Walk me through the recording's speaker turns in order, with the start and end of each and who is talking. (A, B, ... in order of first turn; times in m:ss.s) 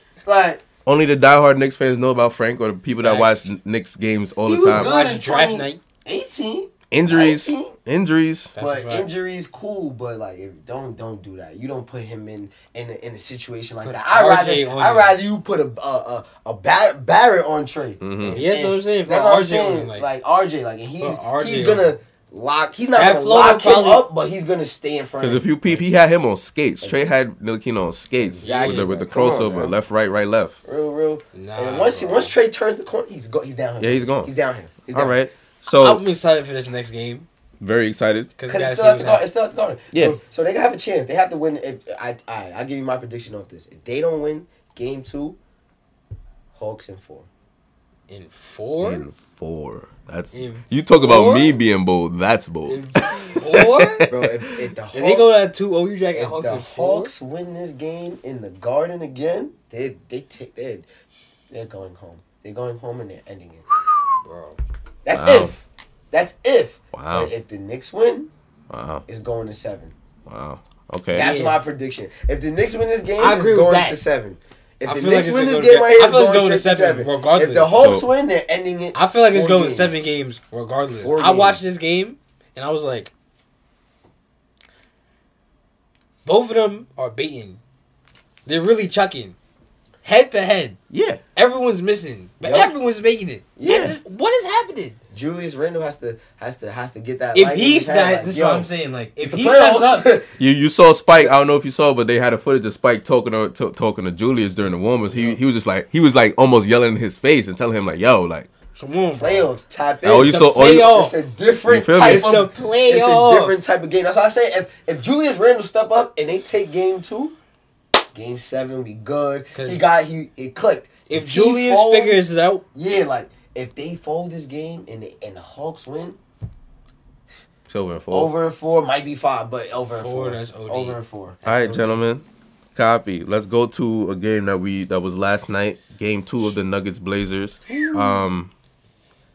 0:00.2-0:00.6 A
0:00.8-0:04.9 B
0:03.0-0:03.5 C
0:04.4-0:07.8 A
0:04.7-0:05.8 C
0:06.9-0:08.5 B
0:08.5-0:09.1 C
0:08.6-0:25.5 A
0:13.8-0:15.2 C
0:18.0-0:18.4 B
0:18.3-0:20.1 C
0:21.0-0:21.9 C
0:23.0-0:24.0 C
0:25.2-0:30.6 B
0:26.8-0:27.1 A
0:28.2-0:29.7 A
0:28.4-0:28.9 C
0:30.6-0:35.2 A
0:31.3-0:32.3 C
0:33.8-0:34.3 B
0:34.9-0:36.0 B
0:35.7-0:37.3 C
0:37.6-0:38.3 B
0:38.4-0:39.3 C
0:38.5-0:45.4 A
0:39.9-0:40.2 B
0:46.5-0:47.3 A
0:48.1-0:49.0 C
0:48.8-0:54.5 B
0:50.3-0:51.6 C
0:52.6-0:54.1 C
0:54.1-0:55.3 A
0:54.9-0:57.1 C
0:56.1-1:00.9 A
1:01.5-1:03.7 A
1:04.2-1:04.6 C
1:05.0-1:08.3 A
1:05.1-1:05.5 B
1:06.9-1:07.3 B
1:08.7-1:09.0 B
1:09.0-1:09.9 A
1:10.2-1:11.3 B
1:11.1-1:20.0 A
1:11.2-1:11.6 C
1:13.2-1:14.0 C
1:14.8-1:18.0 C
1:17.8-1:18.1 B
1:18.9-1:23.1 C
1:21.0-1:21.6 A
1:26.2-1:27.6 C
1:28.4-1:29.4 C
1:30.0-1:30.8 C
1:30.9-1:31.2 B
1:31.3-1:35.0 C
1:32.4-1:32.7 A
1:33.6-1:34.0 A
1:33.7-1:34.0 B
1:35.1-1:38.7 A
1:37.3-1:40.2 C
1:39.2-1:40.3 A
1:40.4-1:48.5 B
1:45.1-1:45.4 C
1:48.8-1:49.5 C
1:49.1-1:57.3 A
1:50.0-1:50.9 B
1:50.1-1:51.2 C
1:51.6-1:52.4 B
1:52.0-1:53.6 C
1:58.1-2:02.2 A
1:59.5-1:59.9 C
2:01.1-2:02.6 C
2:02.7-2:06.2 A
2:07.7-2:08.3 B
2:08.1-2:11.4 A
2:09.9-2:12.0 C
2:11.4-2:18.5 B
2:17.7-2:18.2 A